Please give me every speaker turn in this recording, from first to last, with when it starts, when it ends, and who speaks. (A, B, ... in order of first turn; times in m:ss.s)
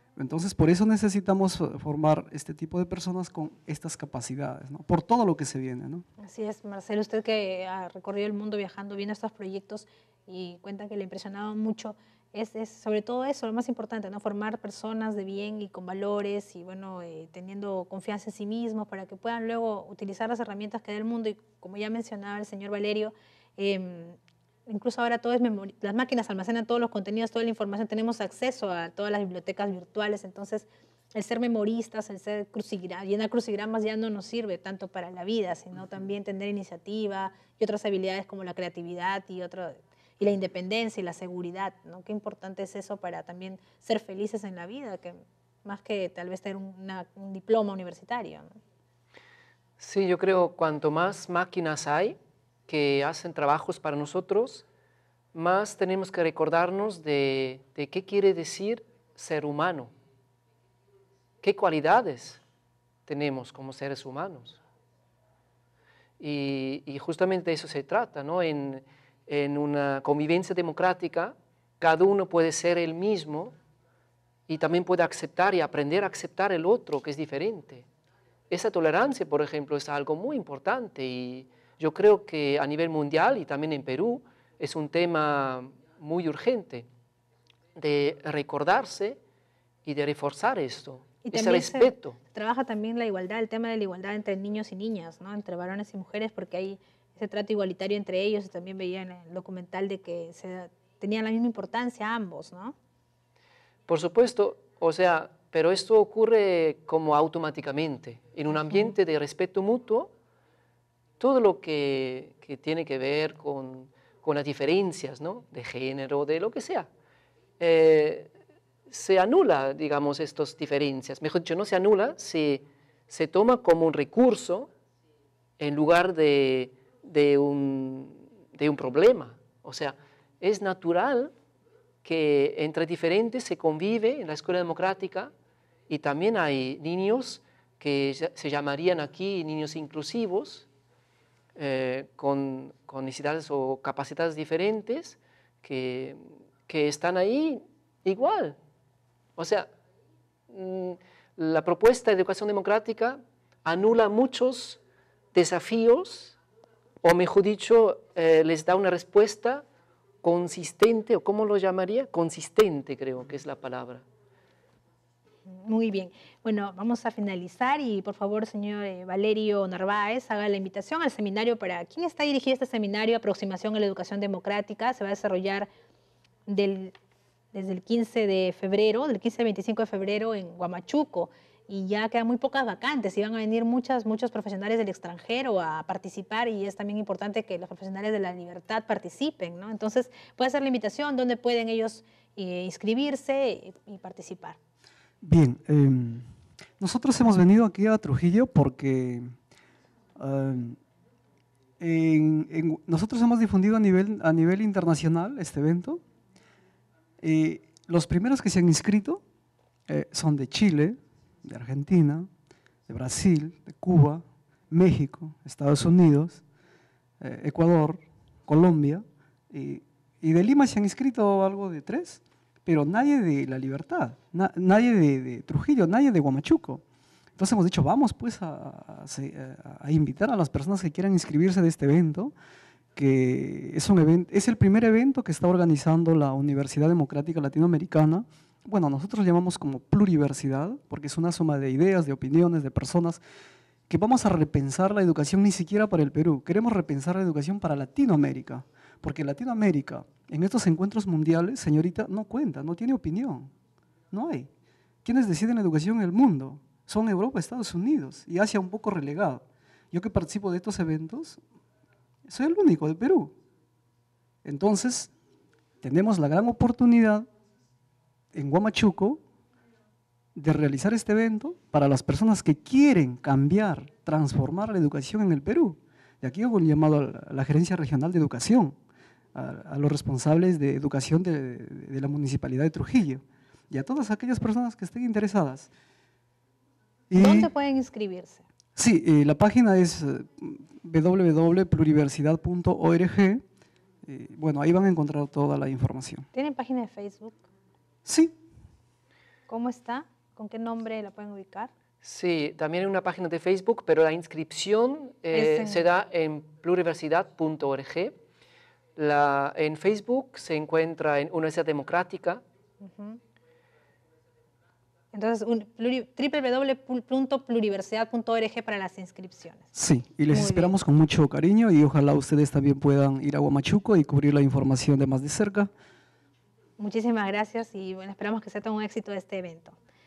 0:00.2-0:06.0 A
0:06.2-0:48.5 B
0:49.8-0:52.2 C
0:52.7-0:54.7 C
0:55.3-0:59.9 C
1:01.4-1:02.4 C
1:03.1-1:04.6 C
1:06.2-1:13.6 C
1:14.5-1:17.9 C
1:18.5-1:26.9 C
1:27.8-1:29.2 C
1:29.8-1:32.2 C
1:31.2-1:42.8 B
1:43.9-1:50.1 C
1:51.2-1:56.9 C
1:57.6-1:58.3 C
1:58.9-2:04.7 C
2:05.6-2:11.3 C
2:12.0-2:15.3 C
2:15.9-2:20.7 C
2:21.6-2:28.6 C
2:29.4-2:29.7 C
2:30.5-2:34.8 C
2:35.3-2:36.4 C
2:37.0-2:39.6 C
2:40.2-2:44.0 C
2:45.5-2:55.7 B
2:56.5-2:57.0 B
2:57.5-3:14.6 B
3:15.2-3:19.3 A
3:20.2-3:20.8 A
3:21.8-3:26.0 A
3:27.2-3:29.2 A
3:29.9-3:32.3 A
3:32.9-3:36.4 A
3:37.2-3:46.8 A
3:47.4-3:52.3 A
3:53.0-4:03.2 A
4:03.9-4:13.5 A
4:14.1-4:14.5 A
4:15.0-4:21.4 A
4:22.3-4:23.3 A
4:24.4-4:25.1 A
4:25.8-4:27.3 A
4:28.3-4:29.2 A
4:30.4-4:38.8 A
4:39.4-4:45.7 A
4:47.1-4:47.5 A
4:47.2-4:48.4 B
4:48.8-4:53.4 A
4:54.0-4:56.3 A
4:56.3-4:57.4 B
4:58.1-4:58.4 A
4:59.5-5:01.7 B
5:02.0-5:08.2 C
5:05.3-5:05.8 B
5:09.0-5:12.4 C
5:12.8-5:13.2 B
5:15.1-5:19.7 B
5:19.7-5:25.7 A
5:20.3-5:20.8 B
5:26.8-5:29.8 B